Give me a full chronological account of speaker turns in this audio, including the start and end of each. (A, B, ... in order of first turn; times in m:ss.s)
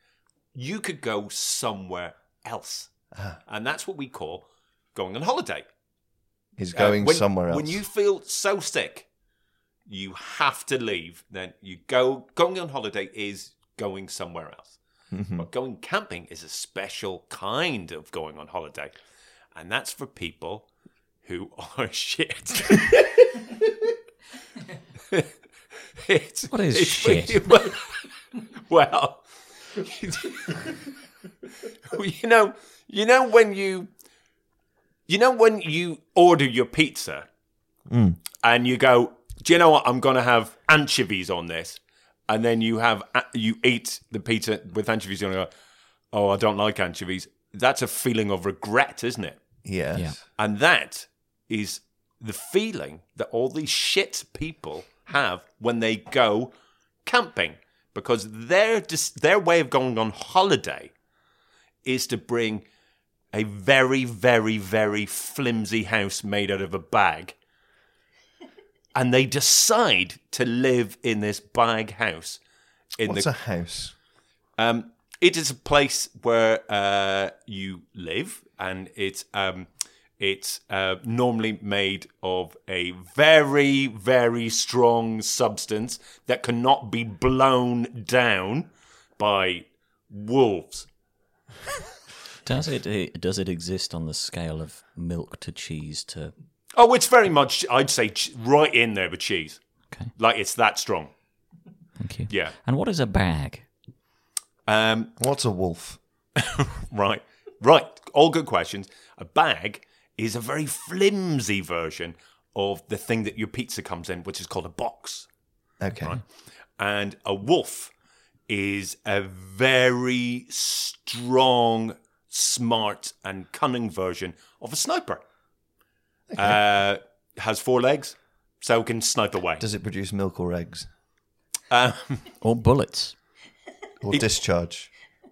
0:00.5-0:02.9 A
0:03.1-0:03.4 B
0:03.5-0:05.6 A
0:06.6-0:07.8 B
0:06.7-0:09.1 A
0:09.9-0:14.8 A
0:15.1-0:15.5 B
0:15.4-0:18.9 A
0:19.5-0:20.7 A
0:21.2-0:23.3 A
0:26.0-0:28.0 A
0:26.5-0:27.4 C
0:28.7-0:29.2 A
0:29.8-0:30.7 A
0:31.9-0:33.9 A
0:35.1-0:37.3 A
0:37.9-0:38.2 B
0:38.4-0:45.5 A
0:46.1-0:49.4 A
0:49.6-0:50.2 B
0:50.4-1:00.9 A
1:01.8-1:02.6 A
1:03.3-1:07.4 A
1:08.9-1:12.4 A
1:13.0-1:13.3 A
1:13.0-1:13.9 B
1:14.6-1:30.9 A
1:32.4-1:36.3 C
1:36.7-1:39.6 A
1:40.2-1:41.1 A
1:42.0-1:43.7 C
1:42.3-1:42.5 A
1:44.6-1:45.1 A
1:45.2-1:46.0 B
1:46.4-1:55.3 A
1:55.8-1:56.2 B
1:56.8-1:57.9 A
1:58.5-2:05.2 A
2:06.3-2:06.6 B
2:06.4-2:09.6 A
2:09.6-2:10.9 B
2:11.7-2:12.3 A
2:12.4-2:13.1 C
2:14.0-2:14.9 B